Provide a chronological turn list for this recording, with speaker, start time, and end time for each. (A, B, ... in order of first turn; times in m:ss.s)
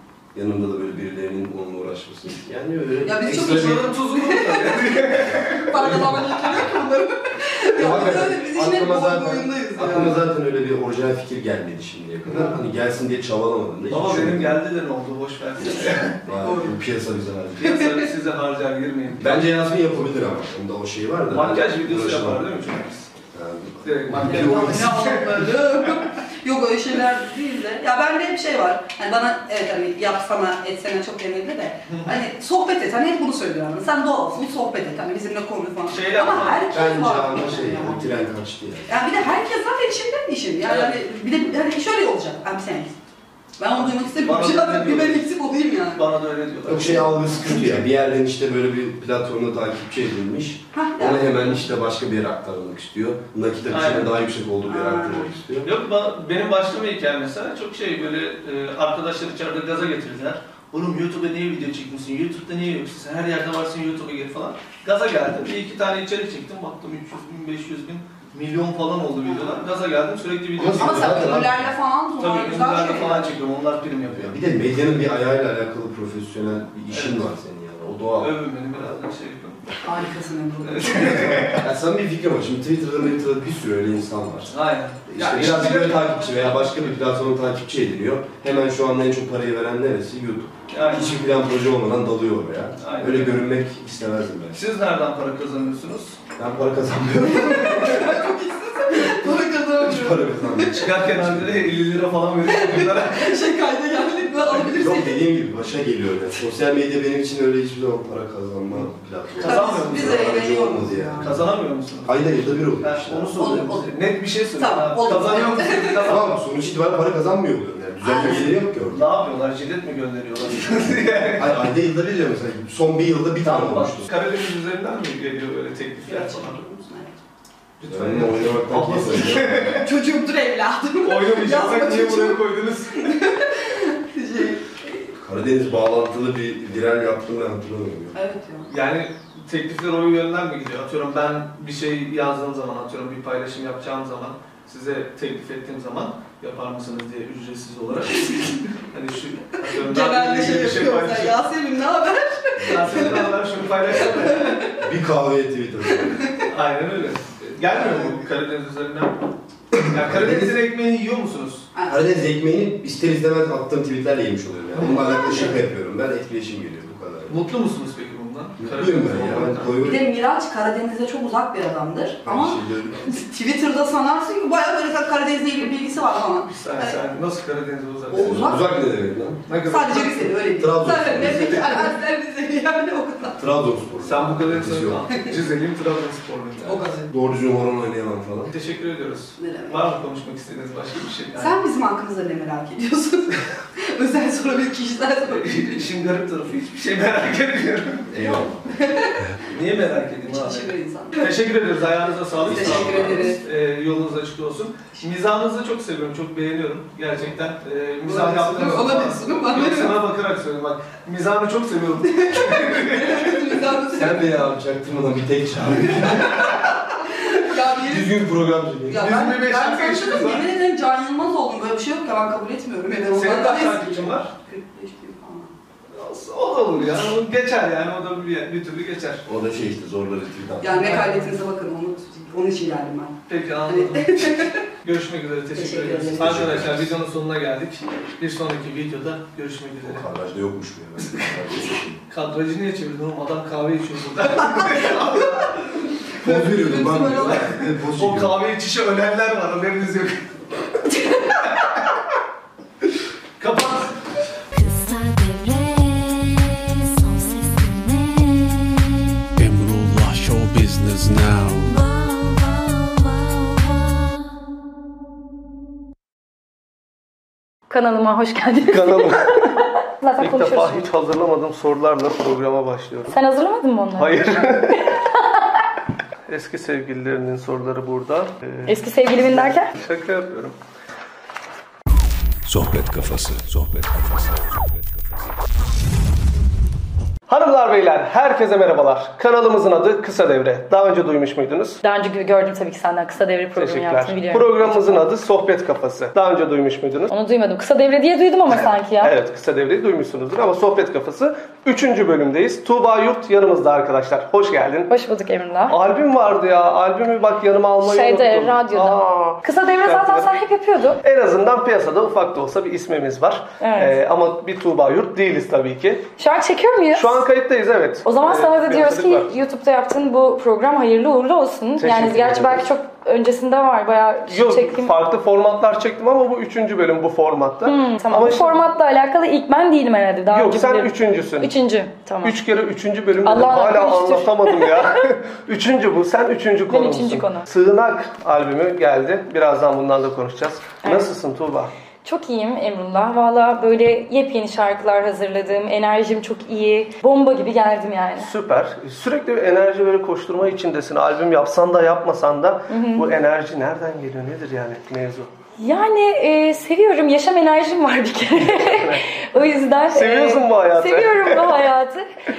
0:00.4-0:03.9 A
0:03.0-0:10.2 B
0:03.2-0:06.2 C
0:07.8-0:14.6 A
0:13.9-0:16.2 C
0:15.7-0:16.8 B
0:16.2-0:17.8 A
0:17.6-0:19.4 C
0:19.2-0:22.6 A
0:21.3-0:23.1 C
0:23.3-0:25.1 A
0:23.8-0:25.6 C
0:24.2-0:38.2 B
0:31.9-0:32.2 C
0:35.9-0:36.6 C
0:36.7-0:38.9 A
0:38.9-0:43.0 B
0:40.7-0:41.0 C
0:43.6-0:46.0 B
0:43.8-0:45.3 C
0:46.0-0:47.7 C
0:46.7-0:55.7 A
0:50.7-0:51.6 B
0:53.7-0:54.1 C
0:54.7-0:55.3 B
0:55.6-1:11.5 C
1:09.2-1:09.7 B
1:10.6-1:11.7 A
1:10.8-1:13.4 B
1:12.2-1:14.4 C
1:14.1-1:18.3 A
1:16.9-1:17.2 C
1:18.2-1:19.8 C
1:19.8-1:21.5 B
1:20.6-1:21.7 C
1:21.6-1:24.5 A
1:24.5-1:27.0 C
1:25.1-1:34.6 A
1:30.7-1:31.2 C
1:32.8-1:33.4 C
1:34.5-1:36.2 C
1:36.4-1:38.1 A
1:37.3-1:40.8 B
1:39.2-1:41.7 A
1:40.7-1:43.4 C
1:42.4-1:45.2 B
1:44.4-1:44.7 C
1:44.8-1:51.5 A
1:48.7-1:50.3 C
1:49.4-1:51.3 B
1:51.2-1:56.4 C
1:52.0-1:53.6 A
1:53.4-1:56.1 B
1:56.0-1:59.1 A
1:58.0-1:58.5 B
1:58.9-2:01.5 C
2:01.3-2:04.1 A
2:03.4-2:06.6 C
2:06.0-2:07.2 B
2:07.8-2:09.9 C
2:07.9-2:09.8 A
2:09.7-2:15.2 B
2:11.0-2:13.1 C
2:15.2-2:18.2 A
2:18.1-2:18.7 B
2:18.7-2:28.3 C
2:28.9-2:31.4 C
2:29.8-2:34.8 B
2:32.6-2:33.2 A
2:32.7-2:34.6 C
2:34.8-2:36.2 A
2:36.0-2:36.3 B
2:36.5-2:39.2 C
2:37.9-2:38.1 B
2:39.7-2:40.6 A
2:39.9-2:41.7 C
2:41.8-2:42.0 B
2:41.9-2:47.4 A
2:44.8-2:45.5 C
2:47.3-2:49.7 C
2:48.6-2:50.1 A
2:49.8-2:57.0 B
2:52.2-2:53.1 A
2:56.5-2:58.5 C
2:58.1-2:58.7 B
2:58.2-2:59.5 A
2:59.5-3:00.3 C
2:59.6-3:03.4 B
3:00.6-3:01.8 A
3:01.2-3:01.8 C
3:03.4-3:05.1 A
3:04.0-3:06.8 C
3:06.7-3:07.1 B
3:07.0-3:08.5 A
3:08.5-3:11.6 C
3:09.4-3:09.9 B
3:11.4-3:15.9 B
3:15.3-3:18.2 C
3:18.1-3:18.7 A
3:18.2-3:19.4 B
3:19.5-3:33.3 C
3:20.0-3:21.5 B
3:22.4-3:23.3 A
3:22.5-3:23.4 B
3:28.0-3:30.0 B
3:32.1-3:34.3 B
3:33.9-3:36.5 A
3:35.9-3:38.1 B
3:37.8-3:39.2 A
3:38.9-3:45.5 B
3:38.9-3:40.5 C
3:43.1-3:44.3 C
3:45.9-3:49.2 C
3:49.2-3:51.0 A
3:50.6-3:54.6 B
3:50.8-3:51.3 C
3:53.3-4:00.1 C
3:55.5-3:56.4 B
3:56.1-3:56.9 A
3:59.8-4:02.0 A
4:02.1-4:05.6 C
4:06.2-4:07.5 B
4:06.2-4:08.4 A
4:06.2-4:10.2 C
4:13.4-4:13.9 C
4:14.5-4:19.3 D
4:19.4-4:21.7 E
4:21.6-4:24.3 D
4:27.7-4:30.9 F
4:28.6-4:29.5 C
4:30.2-4:33.2 C
4:33.1-4:35.5 F
4:34.0-4:35.0 C
4:36.3-4:40.6 C
4:38.7-4:39.7 F
4:42.4-4:45.0 G
4:47.3-4:51.8 C
4:51.8-4:55.1 F
4:53.6-4:57.1 C
4:57.1-4:59.2 F
4:58.6-5:04.9 C
5:04.9-5:05.8 F
5:05.7-5:10.4 C
5:07.8-5:11.0 F
5:11.0-5:16.1 C
5:13.6-5:14.0 F
5:16.2-5:17.3 F
5:16.9-5:19.3 C
5:18.0-5:25.0 F
5:21.8-5:22.7 C
5:24.3-5:28.6 C
5:27.6-5:32.4 F
5:30.3-5:31.5 C
5:32.2-5:41.7 C
5:33.2-5:34.9 F
5:36.7-5:37.5 F
5:40.8-5:41.1 F
5:42.0-5:48.3 F
5:48.2-5:55.3 C
5:52.7-5:53.1 F
5:55.6-6:02.0 F
5:58.5-5:59.0 C
5:59.9-6:01.6 C